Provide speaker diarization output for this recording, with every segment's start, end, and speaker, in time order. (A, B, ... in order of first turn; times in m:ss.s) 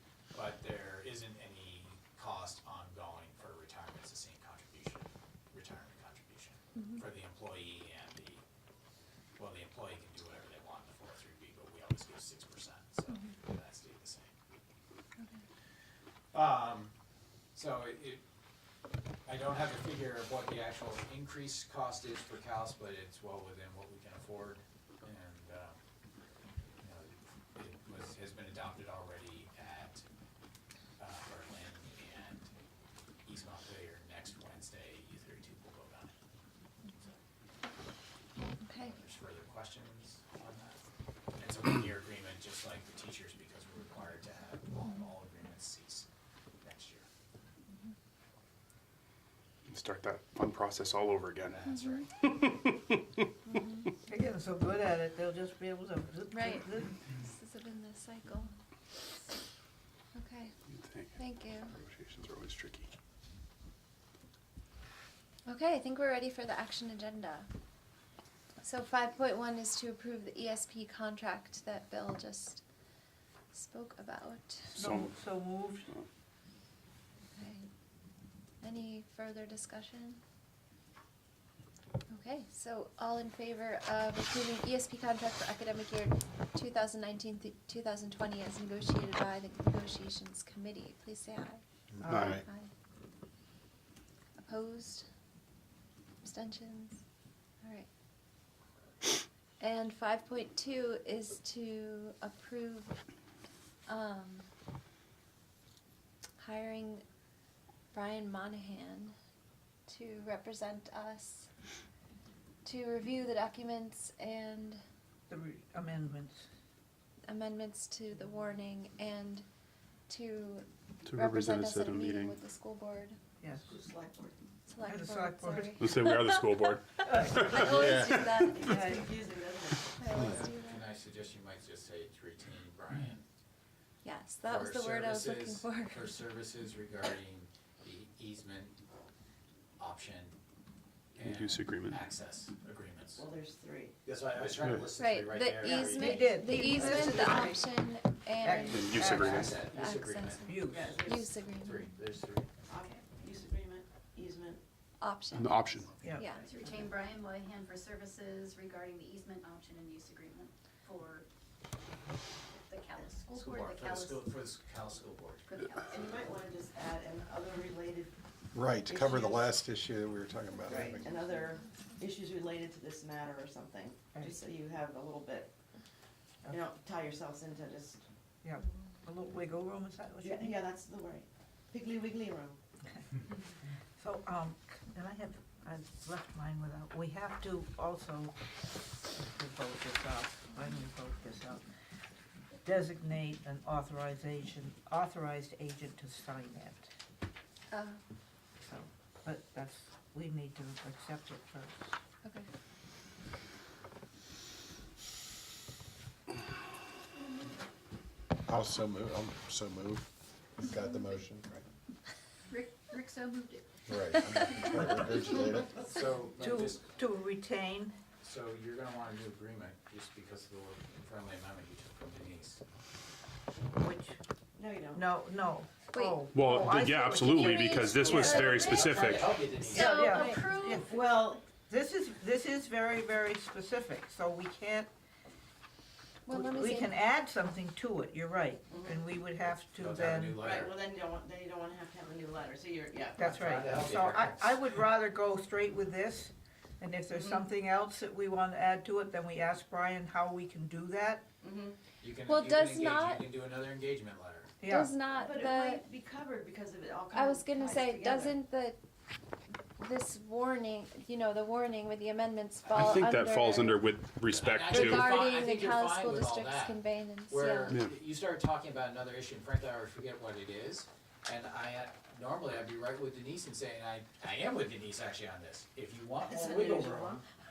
0:00.3-0:08.4 A
0:09.4-0:14.3 A
0:16.3-0:16.9 A
0:17.5-0:18.2 A
0:19.3-0:25.8 A
0:26.8-0:30.0 A
0:31.0-0:32.5 A
0:33.2-0:36.1 A
0:38.6-0:39.0 B
0:38.8-0:40.8 A
0:41.4-0:46.1 A
0:46.6-0:47.1 A
0:49.7-0:51.6 C
0:51.5-0:52.1 A
0:51.7-0:52.0 B
0:52.4-0:53.0 C
0:53.4-0:53.9 B
0:54.1-0:56.9 D
0:56.3-0:58.5 B
1:00.1-1:00.5 B
1:00.7-1:02.9 C
1:01.2-1:01.8 B
1:05.5-1:07.5 B
1:08.6-1:12.6 B
1:13.5-1:14.7 B
1:14.7-1:15.9 D
1:14.8-1:15.2 C
1:17.3-1:17.7 B
1:18.6-1:20.2 B
1:22.1-1:31.6 B
1:32.0-1:32.4 E
1:32.0-1:32.3 D
1:32.1-1:32.4 C
1:32.2-1:32.7 B
1:34.4-1:35.1 B
1:36.2-1:37.0 B
1:37.6-1:37.9 B
1:39.6-1:43.0 B
1:43.9-1:44.5 B
1:46.4-1:47.0 B
1:47.9-1:49.1 B
1:49.9-1:51.5 B
1:52.6-1:54.8 B
1:55.3-1:56.5 D
1:57.2-1:59.4 B
2:00.1-2:03.2 B
2:01.0-2:02.4 C
2:03.6-2:04.4 F
2:04.7-2:08.8 B
2:04.8-2:05.8 D
2:05.8-2:08.7 C
2:07.0-2:07.6 D
2:07.6-2:08.4 E
2:08.4-2:10.3 F
2:08.7-2:09.1 D
2:10.0-2:10.8 B
2:10.0-2:13.2 A
2:14.0-2:16.1 B
2:14.4-2:18.8 A
2:19.8-2:20.4 A
2:21.1-2:23.2 A
2:21.2-2:22.0 C
2:23.2-2:23.9 F
2:24.0-2:27.4 A
2:25.0-2:31.9 B
2:25.9-2:27.3 D
2:26.9-2:27.6 F
2:28.4-2:29.5 D
2:28.5-2:29.8 F
2:28.7-2:29.5 C
2:28.9-2:30.8 A
2:30.4-2:30.8 D
2:30.6-2:31.3 F
2:31.6-2:32.5 A
2:32.7-2:34.6 F
2:35.0-2:36.4 B
2:35.3-2:36.0 C
2:36.0-2:36.3 D
2:36.1-2:36.9 F
2:36.4-2:41.2 G
2:42.5-2:44.3 G
2:43.3-2:45.5 A
2:45.5-2:46.2 G
2:45.9-2:48.1 F
2:48.5-2:51.1 E
2:48.8-2:49.5 F
2:50.7-2:55.5 F
2:56.5-2:58.0 F
2:58.4-3:00.6 D
3:00.2-3:02.6 F
3:04.0-3:08.3 D
3:09.1-3:11.6 D
3:12.6-3:16.9 D
3:17.7-3:18.0 B
3:18.6-3:22.0 D
3:28.4-3:31.6 E
3:32.5-3:33.9 G
3:33.9-3:35.8 E
3:34.5-3:35.4 G
3:35.8-3:36.8 A
3:36.4-3:38.0 D
3:38.2-3:42.6 A
3:43.7-3:44.2 D
3:44.5-3:45.0 F
3:44.9-3:47.6 D
3:45.9-3:46.6 B
3:46.3-3:49.5 C
3:47.1-3:50.4 B
3:48.0-3:50.3 A
3:49.7-3:51.1 G
3:49.7-3:50.9 D
3:50.6-3:51.4 F
3:51.6-3:54.9 D
3:56.3-3:56.9 B
3:56.3-4:00.3 D
3:58.7-3:59.0 F
3:59.6-4:00.7 A
4:00.4-4:03.2 F
4:03.2-4:11.3 D
4:03.2-4:04.6 A
4:07.1-4:07.5 F
4:11.4-4:11.8 F
4:12.0-4:14.5 A
4:12.3-4:13.3 B
4:14.6-4:14.9 D
4:14.6-4:15.8 B
4:15.2-4:18.4 F
4:17.1-4:18.8 B
4:19.8-4:23.9 B
4:22.7-4:25.2 C
4:24.3-4:37.2 A
4:24.6-4:27.8 B
4:36.2-4:37.2 F